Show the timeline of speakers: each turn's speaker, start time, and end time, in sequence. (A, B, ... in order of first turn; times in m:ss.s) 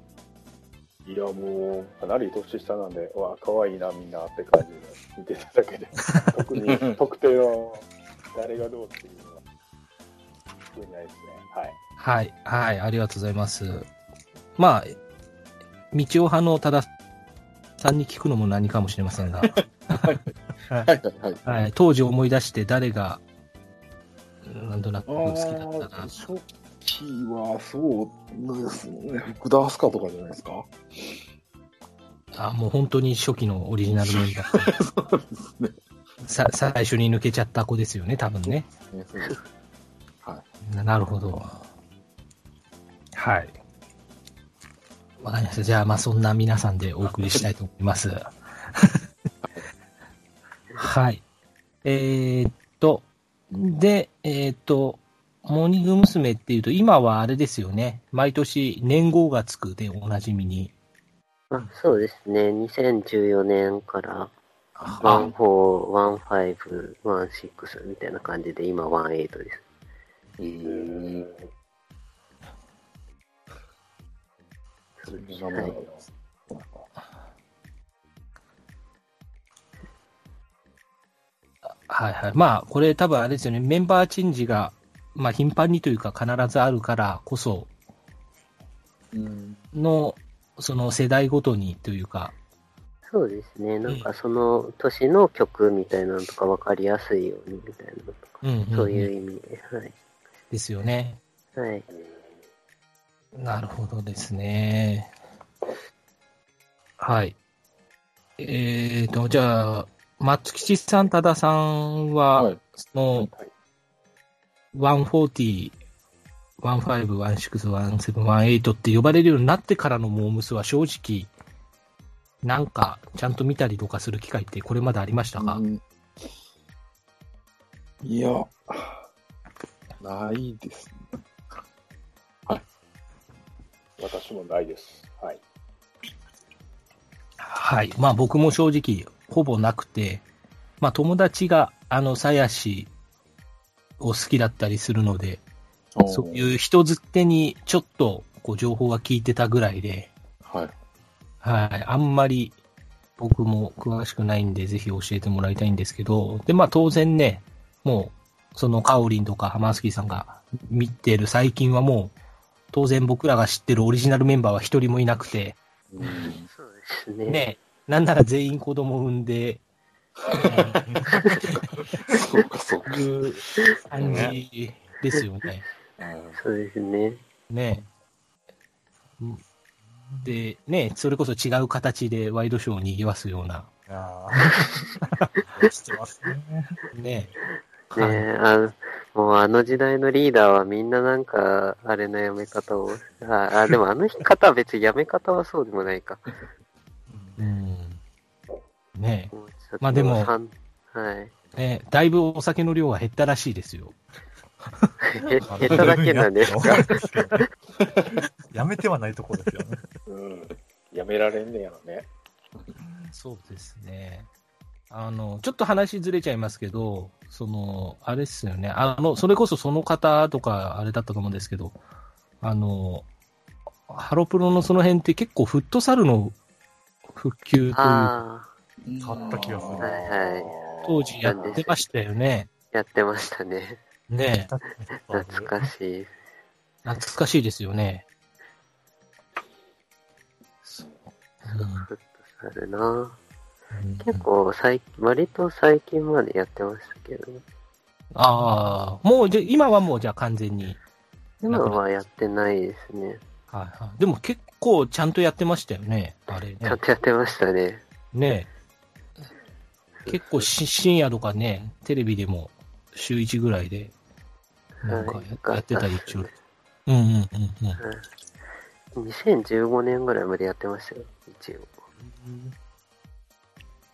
0:01.0-0:09.4 A
0:10.7-0:11.8 A
0:12.0-0:13.9 B
0:14.6-0:15.0 B
0:15.9-0:16.9 B
0:17.8-0:20.1 B
0:20.0-0:20.3 C
0:20.8-0:21.4 C
0:21.4-0:23.2 B
0:24.4-0:26.1 B
0:25.1-0:30.7 C
0:32.3-0:34.8 B
0:34.0-0:35.8 C
0:36.2-0:38.7 B
0:38.5-0:39.4 C
0:40.7-0:41.6 B
0:43.2-0:43.6 B
0:45.2-0:49.0 B
0:50.8-0:51.2 B
0:51.8-1:00.7 B
1:01.5-1:04.3 D
1:04.8-1:05.3 B
1:04.8-1:05.3 C
1:05.0-1:09.6 D
1:10.4-1:11.3 C
1:10.6-1:11.5 A
1:15.1-1:16.0 C
1:15.1-1:16.0 A
1:21.7-1:27.7 B
1:29.1-1:29.6 C
1:29.7-1:32.4 B
1:33.1-1:40.0 D
1:38.4-1:39.1 B
1:40.5-1:41.2 B
1:41.6-1:41.9 D
1:43.4-1:45.1 B
1:47.0-1:47.4 B
1:48.4-1:53.3 B
1:54.7-1:55.8 B
1:56.6-2:01.3 B
2:02.4-2:05.6 B
2:05.4-2:05.8 C
2:08.0-2:09.0 C
2:10.0-2:11.2 C
2:14.0-2:15.4 A
2:17.4-2:20.2 B
2:20.8-2:22.9 B
2:24.0-2:25.4 B
2:26.0-2:26.6 C
2:26.1-2:30.1 B
2:30.4-2:30.7 C
2:31.4-2:32.6 B
2:33.2-2:42.1 B
2:42.7-2:45.6 B
2:45.9-2:46.5 C
2:46.5-2:47.4 D
2:47.3-2:49.6 B
2:50.3-2:54.4 C
2:50.5-2:50.8 B
2:50.9-2:51.2 E
2:52.9-2:55.6 B
2:54.0-2:54.4 E
2:56.0-2:56.4 C
2:56.4-2:57.2 D
2:57.5-2:57.8 B
3:00.0-3:00.3 E
3:00.2-3:03.7 B
3:03.9-3:06.8 E
3:06.9-3:07.3 B
3:07.9-3:08.3 B
3:08.0-3:16.3 D
3:17.1-3:17.4 E
3:17.4-3:18.0 B
3:19.0-3:20.3 B
3:19.3-3:21.3 D
3:21.6-3:24.0 B
3:25.1-3:26.9 D
3:25.4-3:25.9 B
3:25.5-3:27.5 E
3:28.5-3:29.9 E
3:30.1-3:32.1 A
3:33.1-3:34.3 B
3:34.9-3:41.8 B
3:42.4-3:43.1 B
3:43.9-3:46.4 B
3:47.1-3:48.1 B
3:47.8-3:48.5 D
3:48.8-3:51.2 C
3:49.0-3:50.0 E
3:49.8-3:50.5 D
3:50.9-3:52.5 B
3:51.2-3:51.8 D
3:52.7-3:53.8 D
3:54.1-3:54.5 B
3:54.5-3:55.7 E
3:55.1-3:56.1 D
3:56.8-3:58.0 B
4:01.4-4:01.9 B
4:01.5-4:03.2 D
4:03.7-4:04.3 B
4:04.0-4:07.4 D
4:08.1-4:10.8 B
4:11.4-4:13.2 D
4:11.5-4:11.8 B
4:13.5-4:16.8 B
4:16.6-4:17.8 D
4:18.1-4:18.5 B
4:20.0-4:20.5 D
4:20.1-4:23.9 B
4:24.8-4:26.3 D
4:24.8-4:26.3 B
4:26.9-4:27.8 B
4:27.8-4:28.1 D
4:29.0-4:31.7 D
4:32.2-4:32.5 B